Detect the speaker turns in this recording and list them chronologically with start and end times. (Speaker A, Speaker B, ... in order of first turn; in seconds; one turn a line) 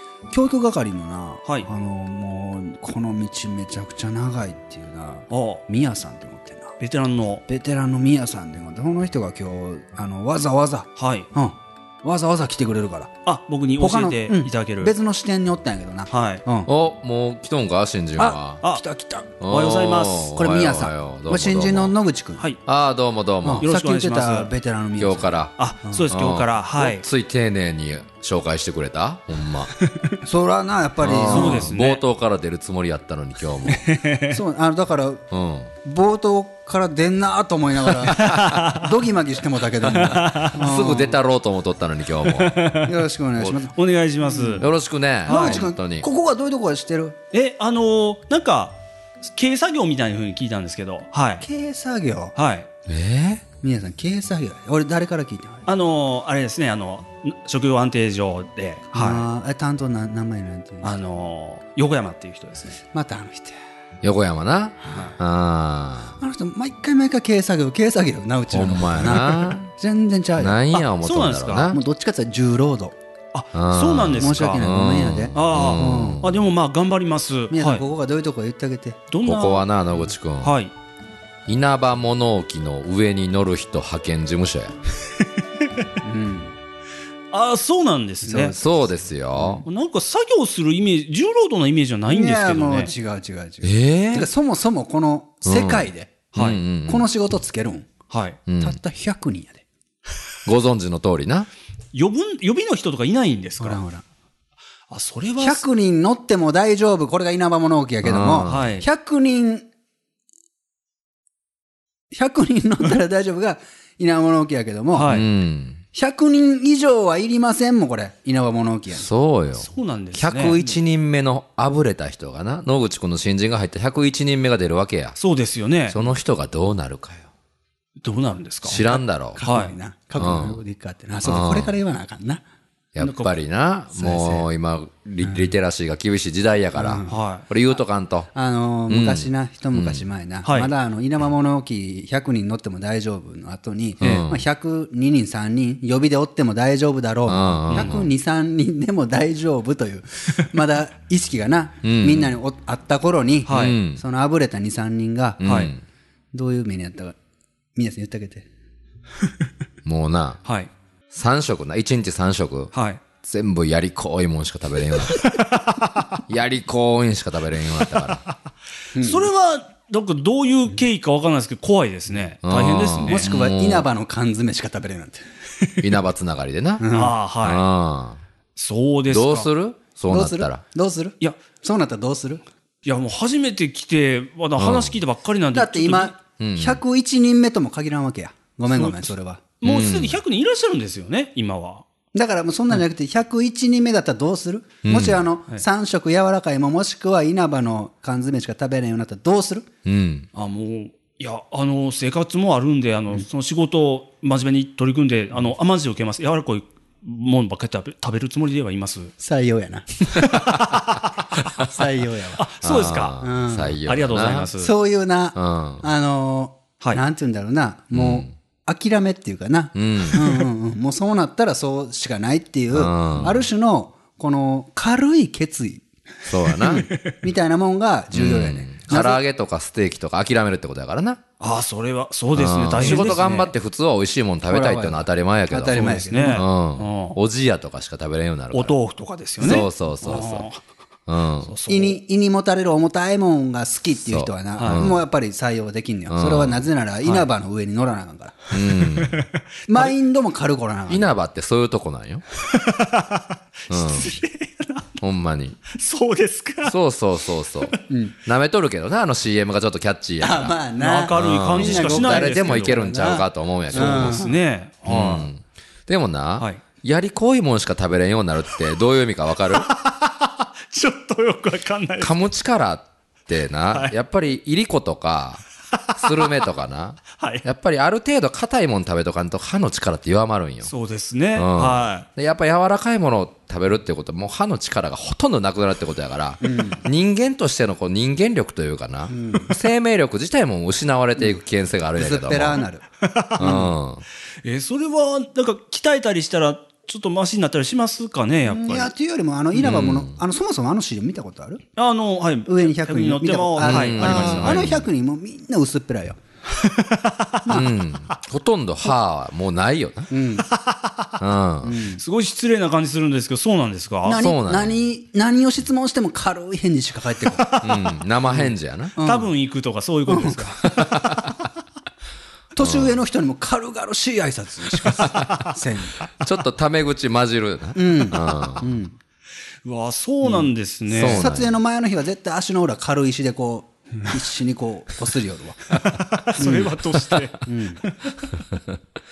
Speaker A: 0.3-6.7
Speaker B: 5.3-5.6
Speaker B: 6.8-7.4
Speaker A: 7.5-13.1
Speaker B: 10.9-11.3
Speaker B: 13.2-14.9
Speaker A: 13.8-16.7
Speaker B: 16.1-16.4
Speaker C: 16.6-18.6
Speaker A: 18.2-19.3
Speaker C: 19.4-21.9
Speaker B: 19.4-20.3
Speaker A: 20.3-22.5
Speaker C: 22.6-23.7
Speaker A: 23.4-25.4
Speaker B: 23.6-24.5
Speaker C: 25.0-25.5
Speaker B: 25.6-27.0
Speaker C: 26.1-29.7
Speaker B: 29.8-30.1
Speaker A: 30.2-31.7
Speaker C: 31.0-33.9
Speaker B: 31.3-32.0
Speaker B: 33.6-34.4
Speaker A: 34.3-35.2
Speaker C: 35.3-35.7
Speaker A: 35.8-41.2
Speaker B: 38.1-38.9
Speaker B: 39.8-40.6
Speaker C: 40.5-42.5
Speaker B: 42.2-42.9
Speaker A: 42.8-44.7
Speaker B: 43.7-44.7
Speaker C: 44.6-46.1
Speaker B: 45.2-45.7
Speaker A: 45.2-47.2
Speaker B: 47.3-51.5
Speaker A: 51.4-52.3
Speaker B: 52.3-52.7
Speaker C: 52.9-53.4
Speaker A: 53.6-55.7
Speaker B: 55.6-59.2
Speaker A: 58.9-61.0
Speaker B: 60.8-62.8
Speaker A: 62.8-63.6
Speaker C: 64.0-66.2
Speaker A: 66.2-70.7
Speaker C: 68.5-69.7
Speaker C: 70.4-71.8
Speaker B: 70.9-71.7
Speaker A: 71.7-73.0
Speaker B: 73.3-74.6
Speaker C: 73.5-76.4
Speaker A: 74.2-76.2
Speaker B: 75.3-77.8
Speaker A: 77.5-79.0
Speaker B: 79.1-79.7
Speaker C: 79.2-80.5
Speaker B: 80.4-80.7
Speaker C: 81.5-84.8
Speaker B: 85.2-85.8
Speaker A: 86.0-86.5
Speaker B: 87.3-88.5
Speaker A: 88.2-89.7
Speaker C: 88.5-89.7
Speaker B: 89.7-92.9
Speaker A: 92.1-96.2
Speaker C: 93.6-94.3
Speaker C: 95.4-97.0
Speaker B: 96.3-96.6
Speaker A: 96.9-97.9
Speaker B: 98.1-98.4
Speaker C: 98.5-98.8
Speaker A: 98.6-99.6
Speaker C: 100.4-101.5
Speaker B: 101.9-103.8
Speaker A: 103.6-104.0
Speaker B: 104.9-105.6
Speaker A: 105.4-109.7
Speaker C: 108.0-108.7
Speaker B: 108.5-108.9
Speaker A: 112.1-115.1
Speaker B: 114.9-115.3
Speaker C: 115.0-115.8
Speaker A: 115.9-119.1
Speaker C: 118.9-125.2
Speaker B: 119.5-120.8
Speaker B: 125.2-126.0
Speaker C: 125.9-127.3
Speaker B: 128.0-128.8
Speaker C: 128.6-129.4
Speaker A: 128.7-132.4
Speaker B: 129.4-129.7
Speaker C: 130.2-130.6
Speaker C: 131.2-131.7
Speaker C: 132.9-138.3
Speaker B: 133.0-133.3
Speaker A: 133.9-134.5
Speaker A: 135.2-135.5
Speaker A: 136.8-137.1
Speaker B: 137.1-137.4
Speaker A: 138.3-155.4
Speaker C: 138.9-140.1
Speaker B: 140.4-140.7
Speaker B: 144.0-144.3
Speaker C: 144.0-144.4
Speaker C: 147.2-148.1
Speaker B: 147.7-148.0
Speaker C: 151.8-152.4
Speaker B: 153.4-153.8
Speaker C: 153.5-154.0
Speaker C: 155.4-155.8
Speaker B: 155.4-155.7
Speaker A: 156.3-157.1
Speaker A: 157.7-158.4
Speaker C: 159.8-160.4
Speaker B: 160.4-160.7
Speaker C: 161.1-165.3
Speaker B: 162.7-163.0
Speaker B: 165.2-166.1
Speaker C: 166.3-168.2
Speaker A: 168.9-169.3
Speaker B: 169.0-173.3
Speaker C: 172.4-173.9
Speaker A: 173.1-175.2
Speaker C: 175.8-176.9
Speaker A: 176.8-177.2
Speaker B: 176.9-177.6
Speaker C: 177.4-178.2
Speaker B: 178.6-179.5
Speaker C: 179.1-180.6
Speaker A: 180.1-182.4
Speaker B: 182.8-186.2
Speaker C: 184.6-184.9
Speaker A: 185.5-189.4
Speaker C: 186.4-186.8
Speaker B: 188.7-191.8
Speaker C: 189.6-190.2
Speaker A: 192.1-199.7
Speaker C: 194.8-195.2
Speaker C: 199.8-200.3
Speaker B: 200.3-209.1
Speaker A: 209.2-210.3
Speaker B: 210.2-211.1
Speaker A: 211.6-212.5
Speaker B: 212.4-213.2
Speaker C: 212.6-214.5
Speaker A: 213.2-213.8
Speaker B: 213.8-214.7
Speaker A: 214.6-225.9
Speaker C: 215.3-215.8
Speaker C: 217.9-218.3
Speaker C: 219.7-220.3
Speaker C: 222.7-223.4
Speaker B: 223.2-223.4
Speaker C: 226.2-226.9
Speaker A: 226.5-229.2
Speaker B: 226.6-227.2
Speaker C: 228.1-231.2
Speaker B: 231.4-233.5
Speaker C: 232.3-238.8
Speaker A: 232.8-233.3
Speaker A: 234.5-236.5
Speaker B: 235.7-237.2
Speaker B: 238.5-240.6
Speaker C: 239.4-240.5
Speaker C: 241.1-241.5
Speaker B: 241.4-242.0
Speaker A: 241.7-248.4
Speaker C: 244.0-245.0
Speaker B: 244.6-244.9
Speaker C: 246.1-246.6
Speaker C: 248.5-249.2
Speaker B: 248.9-249.9
Speaker A: 249.7-251.1
Speaker C: 250.9-252.2
Speaker B: 252.5-254.9
Speaker C: 253.7-254.1
Speaker C: 255.0-255.6
Speaker B: 255.7-256.8
Speaker C: 256.6-260.6
Speaker A: 257.9-258.2
Speaker A: 260.2-264.4
Speaker B: 260.8-262.8
Speaker C: 261.1-264.3
Speaker B: 263.7-265.3
Speaker C: 264.8-269.7
Speaker B: 269.5-272.2
Speaker C: 272.0-275.4
Speaker B: 275.7-276.4
Speaker C: 275.9-280.7
Speaker B: 277.2-277.4
Speaker B: 280.6-282.1
Speaker C: 281.3-292.6
Speaker A: 286.4-286.8
Speaker A: 289.1-289.6
Speaker A: 291.9-292.8
Speaker B: 293.0-293.6
Speaker C: 293.4-294.0
Speaker A: 293.4-293.7
Speaker B: 294.4-298.9
Speaker A: 298.5-301.6
Speaker C: 299.5-300.2
Speaker B: 301.8-304.8
Speaker A: 302.4-306.2
Speaker C: 303.6-304.9
Speaker B: 306.6-307.5
Speaker A: 307.4-307.7
Speaker C: 307.5-310.1
Speaker A: 310.1-310.5
Speaker B: 310.5-311.1
Speaker C: 311.2-311.8
Speaker A: 311.6-312.0
Speaker B: 311.9-314.3
Speaker A: 314.0-317.7
Speaker C: 314.2-314.8
Speaker C: 317.6-318.9
Speaker A: 318.3-319.3
Speaker B: 319.0-321.0
Speaker A: 320.1-320.8
Speaker C: 320.8-321.1
Speaker A: 322.5-326.1
Speaker C: 322.6-323.0
Speaker C: 326.1-328.6
Speaker A: 327.7-328.9
Speaker B: 329.6-331.3
Speaker A: 330.2-336.8
Speaker C: 330.9-331.5
Speaker B: 335.8-338.0
Speaker A: 337.4-337.8